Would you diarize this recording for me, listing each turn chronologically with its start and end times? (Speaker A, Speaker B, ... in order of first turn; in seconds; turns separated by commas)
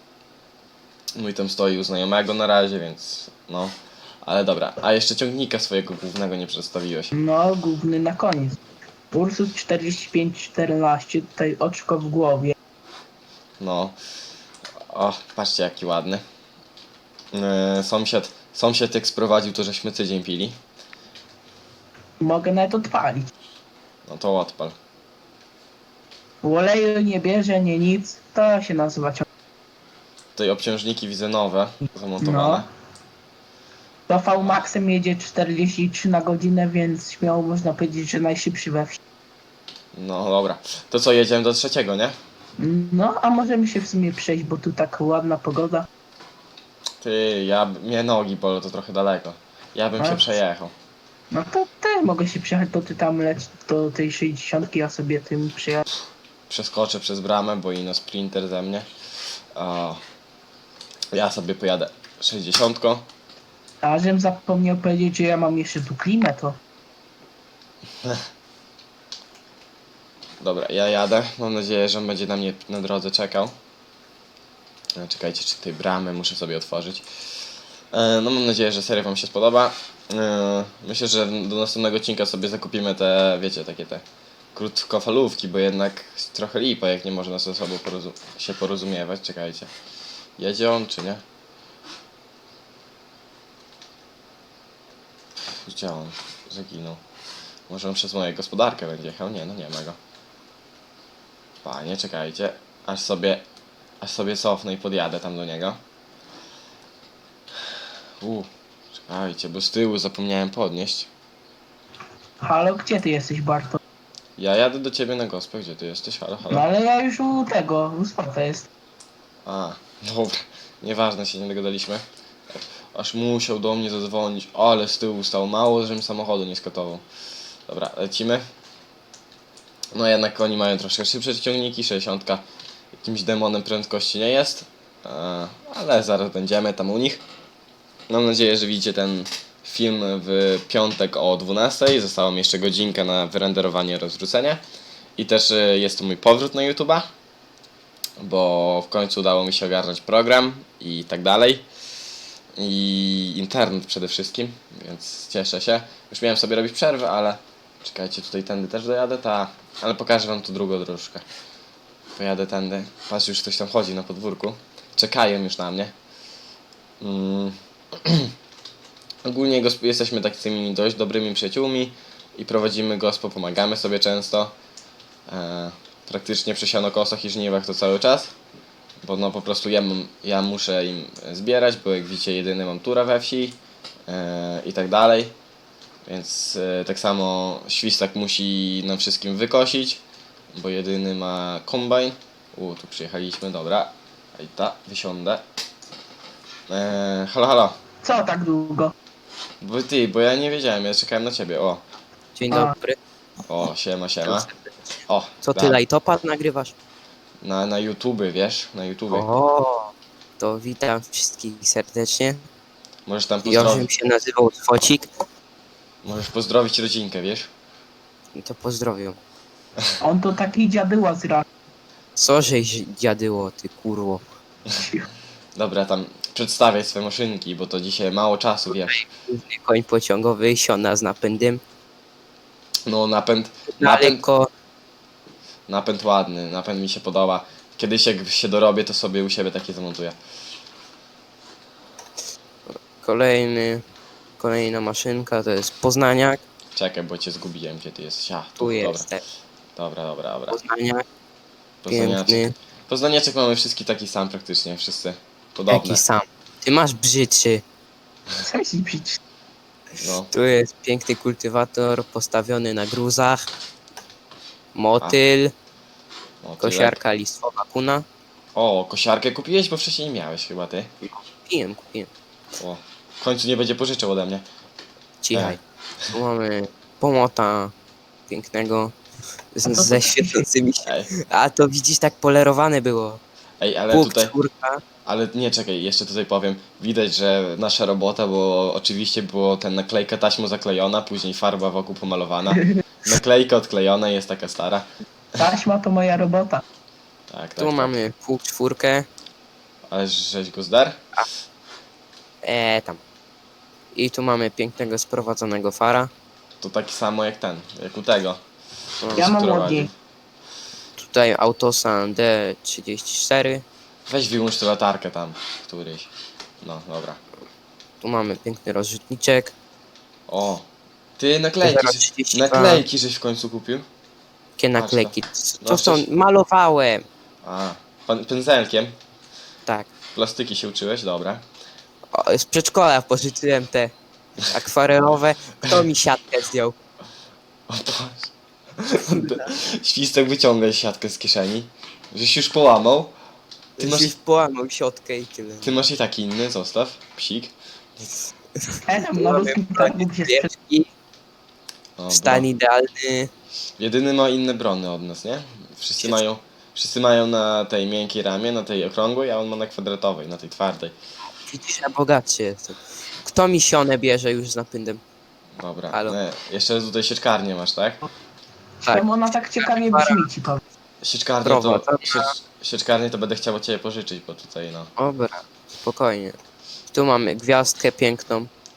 Speaker A: 1.1-7.1, Speaker B: 7.1-8.6, Speaker B: 9.1-12.6, Speaker A: 13.6-14.0, Speaker A: 14.9-16.2, Speaker A: 17.3-20.6, Speaker B: 22.2-23.3, Speaker A: 24.1-24.8, Speaker B: 26.4-29.3, Speaker A: 30.4-32.7, Speaker B: 32.2-32.6, Speaker B: 34.1-39.0, Speaker A: 39.9-42.2, Speaker B: 42.6-45.9, Speaker A: 47.0-50.7, Speaker B: 50.0-50.3, Speaker B: 51.3-55.9, Speaker A: 56.5-58.9, Speaker A: 59.5-60.0, Speaker A: 61.1-63.1, Speaker B: 63.8-66.6, Speaker A: 70.4-73.5, Speaker A: 75.0-77.1, Speaker A: 77.9-89.7, Speaker A: 90.4-91.2, Speaker A: 95.7-97.0, Speaker A: 97.7-100.0, Speaker A: 101.6-103.4, Speaker A: 104.0-105.8, Speaker A: 108.2-108.5, Speaker A: 109.0-111.1, Speaker B: 112.4-113.8, Speaker A: 114.4-116.7, Speaker B: 116.5-118.7, Speaker A: 119.5-127.0, Speaker A: 127.7-128.4, Speaker A: 129.9-137.2, Speaker A: 138.1-144.6, Speaker A: 145.2-147.1, Speaker A: 148.2-151.7, Speaker A: 152.6-161.2, Speaker A: 162.2-165.9, Speaker A: 167.0-168.3, Speaker A: 169.2-174.5, Speaker A: 175.3-178.3, Speaker A: 179.0-185.3, Speaker A: 186.1-190.0, Speaker A: 190.5-195.4, Speaker A: 196.7-197.8, Speaker B: 198.0-198.9, Speaker A: 199.6-201.8, Speaker C: 202.4-203.0, Speaker A: 203.5-204.5, Speaker C: 204.2-204.7, Speaker A: 205.1-205.8, Speaker C: 205.4-206.8, Speaker A: 207.4-209.2, Speaker C: 209.1-212.4, Speaker A: 213.1-213.9, Speaker C: 213.4-215.1, Speaker A: 216.0-217.5, Speaker C: 218.3-219.2, Speaker B: 220.0-221.4, Speaker C: 222.2-224.2, Speaker B: 224.8-225.1, Speaker A: 225.6-229.0, Speaker C: 228.7-231.6, Speaker A: 232.9-234.2, Speaker C: 233.7-234.5, Speaker A: 235.7-240.2, Speaker C: 242.7-243.8, Speaker C: 244.4-246.4, Speaker A: 246.8-249.1, Speaker C: 248.6-249.2, Speaker A: 249.8-250.6, Speaker C: 250.5-251.0, Speaker A: 251.8-256.0, Speaker C: 251.9-252.5, Speaker C: 255.7-257.6, Speaker B: 258.4-259.2, Speaker A: 260.0-260.3, Speaker C: 260.3-263.5, Speaker C: 264.7-265.5, Speaker A: 266.4-267.0, Speaker C: 266.6-268.1, Speaker A: 268.6-270.9, Speaker C: 271.0-272.1, Speaker A: 272.6-274.4, Speaker C: 275.2-275.6, Speaker C: 276.1-277.7, Speaker C: 278.3-278.9, Speaker C: 279.5-283.2, Speaker B: 279.7-280.4, Speaker A: 283.6-284.3, Speaker C: 283.9-284.8, Speaker A: 285.1-294.9, Speaker B: 295.4-296.6, Speaker A: 297.3-298.0, Speaker C: 297.6-299.1, Speaker A: 299.9-301.0, Speaker C: 302.4-303.0, Speaker C: 303.9-306.1, Speaker A: 306.6-308.4, Speaker C: 309.0-309.3, Speaker A: 309.1-309.9, Speaker B: 309.2-309.9, Speaker C: 311.0-313.6, Speaker A: 314.1-316.1, Speaker A: 316.6-317.2, Speaker C: 318.0-319.5, Speaker A: 320.3-320.7, Speaker A: 321.2-323.9, Speaker C: 321.6-322.8, Speaker C: 324.6-327.1, Speaker A: 324.8-326.1, Speaker A: 327.4-329.0, Speaker A: 330.1-331.4, Speaker C: 332.1-336.8, Speaker A: 337.7-343.1, Speaker C: 339.1-339.5, Speaker C: 343.8-345.7, Speaker A: 343.8-344.1, Speaker A: 345.6-348.1, Speaker C: 348.6-350.9, Speaker B: 348.9-350.5, Speaker A: 352.0-352.5, Speaker C: 352.1-353.3, Speaker A: 353.8-361.0, Speaker C: 361.5-365.0, Speaker A: 365.6-368.0, Speaker C: 365.9-366.2, Speaker B: 368.9-370.6, Speaker C: 369.6-370.3, Speaker A: 371.0-374.9, Speaker C: 371.4-372.3, Speaker C: 375.0-376.4, Speaker C: 376.9-378.5